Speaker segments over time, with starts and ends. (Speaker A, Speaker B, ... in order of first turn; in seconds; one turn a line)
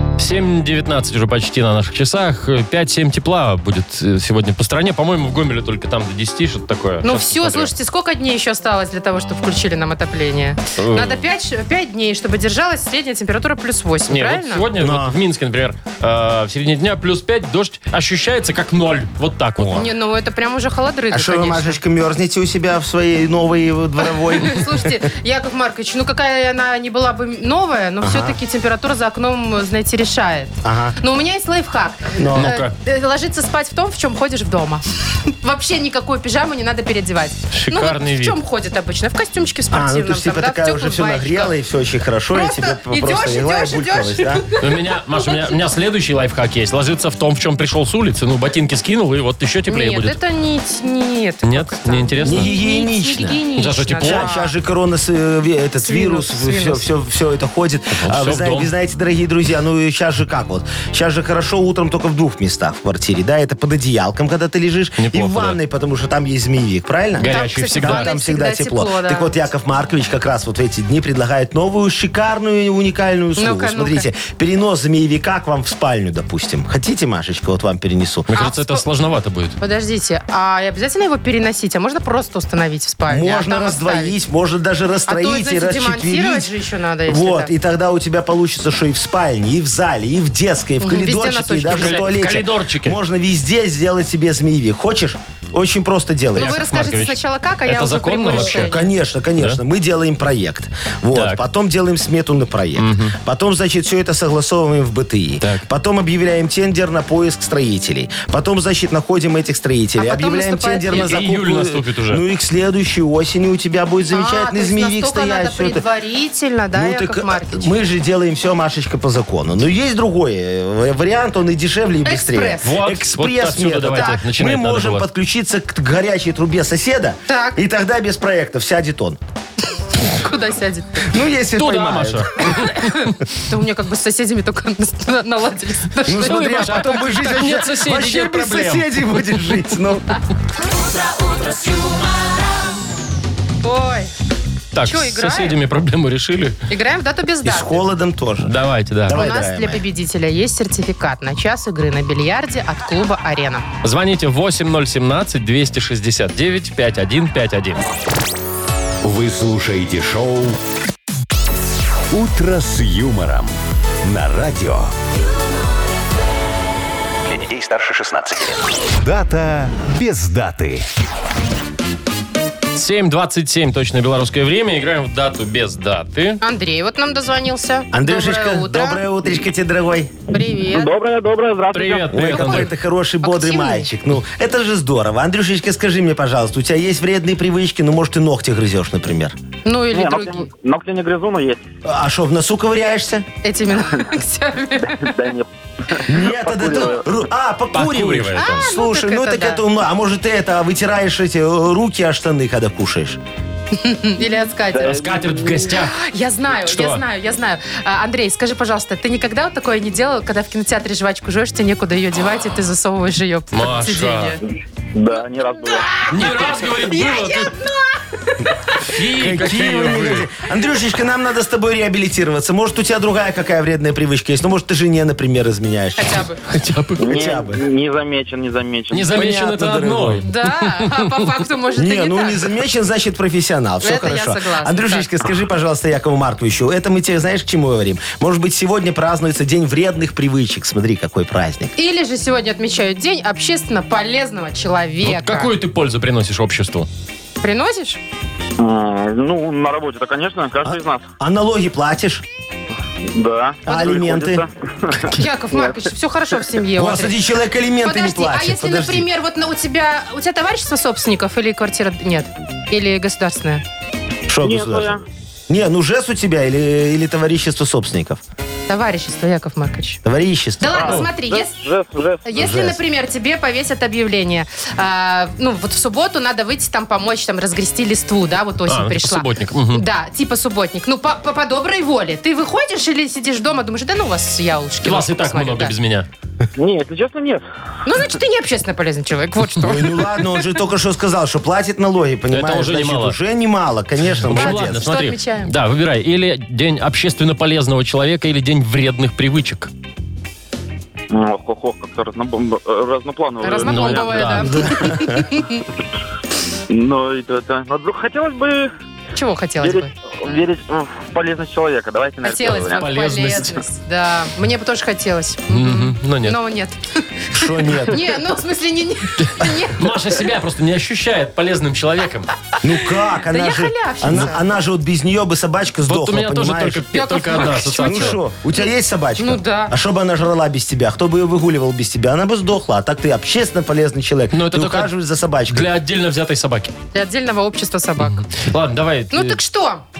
Speaker A: 0.2-7.7
Speaker B: 7.0-14.7
Speaker A: 10.8-11.2
Speaker A: 14.1-19.8
Speaker C: 14.8-15.2
Speaker C: 19.6-19.9
Speaker B: 19.7-21.8
Speaker C: 21.1-24.9
Speaker B: 24.3-41.5
Speaker C: 28.0-28.4
Speaker C: 30.6-31.0
Speaker C: 32.1-32.6
Speaker A: 32.4-32.7
Speaker A: 37.5-38.4
Speaker C: 39.7-44.4
Speaker B: 42.3-45.6
Speaker A: 44.6-50.2
Speaker B: 49.7-54.5
Speaker A: 51.4-52.5
Speaker C: 52.2-53.4
Speaker A: 53.6-54.3
Speaker C: 54.0-78.3
Speaker B: 55.8-56.9
Speaker A: 58.0-58.7
Speaker A: 65.0-65.6
Speaker A: 67.2-68.1
Speaker B: 67.2-69.3
Speaker B: 73.4-74.1
Speaker A: 78.3-79.6
Speaker B: 78.3-78.8
Speaker B: 79.6-84.2
Speaker C: 83.1-86.5
Speaker B: 85.1-87.5
Speaker C: 87.1-96.6
Speaker B: 90.8-92.1
Speaker A: 91.7-93.0
Speaker B: 96.3-98.9
Speaker A: 96.4-98.8
Speaker C: 98.3-115.8
Speaker A: 101.1-101.4
Speaker A: 102.8-103.2
Speaker B: 110.0-111.2
Speaker A: 110.9-112.2
Speaker B: 114.1-117.7
Speaker C: 116.7-129.2
Speaker B: 122.1-122.7
Speaker A: 122.6-125.1
Speaker B: 127.3-127.6
Speaker B: 130.0-131.1
Speaker C: 131.0-132.5
Speaker A: 131.6-133.1
Speaker B: 132.6-136.9
Speaker C: 136.1-140.2
Speaker A: 136.1-139.3
Speaker B: 143.6-144.1
Speaker A: 144.7-146.6
Speaker B: 144.8-145.6
Speaker B: 146.7-147.8
Speaker C: 147.4-148.5
Speaker A: 148.4-149.2
Speaker C: 149.1-149.8
Speaker B: 149.1-153.7
Speaker A: 153.8-157.8
Speaker D: 159.0-160.6
Speaker D: 162.1-164.9
Speaker D: 167.2-170.9
Speaker A: 172.7-176.4
Speaker B: 176.4-179.0
Speaker C: 177.9-180.1
Speaker B: 180.3-180.9
Speaker E: 180.7-182.3
Speaker A: 181.7-182.7
Speaker C: 182.1-189.4
Speaker B: 183.2-183.9
Speaker B: 189.7-190.5
Speaker E: 189.9-191.6
Speaker C: 191.8-193.3
Speaker B: 193.4-195.2
Speaker E: 194.8-197.1
Speaker C: 196.1-203.2
Speaker A: 197.7-198.7
Speaker B: 198.4-199.6
Speaker B: 203.8-204.9
Speaker E: 204.7-205.6
Speaker A: 204.8-206.0
Speaker B: 205.7-214.4
Speaker A: 206.6-207.0
Speaker A: 213.5-214.4
Speaker E: 214.9-216.0
Speaker B: 216.0-218.9
Speaker A: 216.1-217.5
Speaker A: 218.8-220.3
Speaker C: 219.1-226.3
Speaker B: 226.0-226.4
Speaker A: 226.5-227.1
Speaker E: 227.0-229.2
Speaker C: 227.1-227.6
Speaker A: 228.9-231.2
Speaker C: 229.1-230.2
Speaker B: 230.2-232.4
Speaker C: 231.8-241.7
Speaker B: 233.8-235.1
Speaker B: 241.8-245.5
Speaker A: 245.0-246.9
Speaker B: 247.4-248.0
Speaker E: 248.6-251.0
Speaker C: 250.6-252.2
Speaker E: 253.1-255.8
Speaker C: 253.7-254.4
Speaker B: 255.1-257.2
Speaker C: 256.8-259.1
Speaker B: 257.8-263.6
Speaker C: 264.3-265.0
Speaker E: 264.4-265.0
Speaker C: 265.5-268.2
Speaker B: 268.7-270.0
Speaker C: 270.0-270.9
Speaker B: 270.6-271.6
Speaker E: 270.7-272.5
Speaker B: 272.2-285.7
Speaker C: 272.4-272.8
Speaker A: 278.7-279.8
Speaker A: 284.8-286.1
Speaker E: 286.6-287.4
Speaker B: 287.9-290.4
Speaker C: 289.6-294.9
Speaker A: 292.3-293.2
Speaker A: 294.2-299.7
Speaker B: 294.3-295.5
Speaker E: 301.1-304.6
Speaker B: 303.4-305.6
Speaker A: 303.6-304.6
Speaker C: 304.5-305.2
Speaker E: 306.7-308.7
Speaker B: 309.2-309.9
Speaker E: 309.6-312.9
Speaker B: 312.2-319.8
Speaker A: 312.4-313.6
Speaker A: 315.5-316.4
Speaker C: 317.3-318.1
Speaker A: 319.2-322.4
Speaker C: 322.6-326.9
Speaker B: 323.3-324.4
Speaker A: 325.9-328.2
Speaker B: 326.9-329.7
Speaker C: 327.8-335.7
Speaker A: 334.3-334.9
Speaker A: 335.5-336.7
Speaker B: 336.9-338.3
Speaker A: 338.0-339.4
Speaker B: 339.1-339.8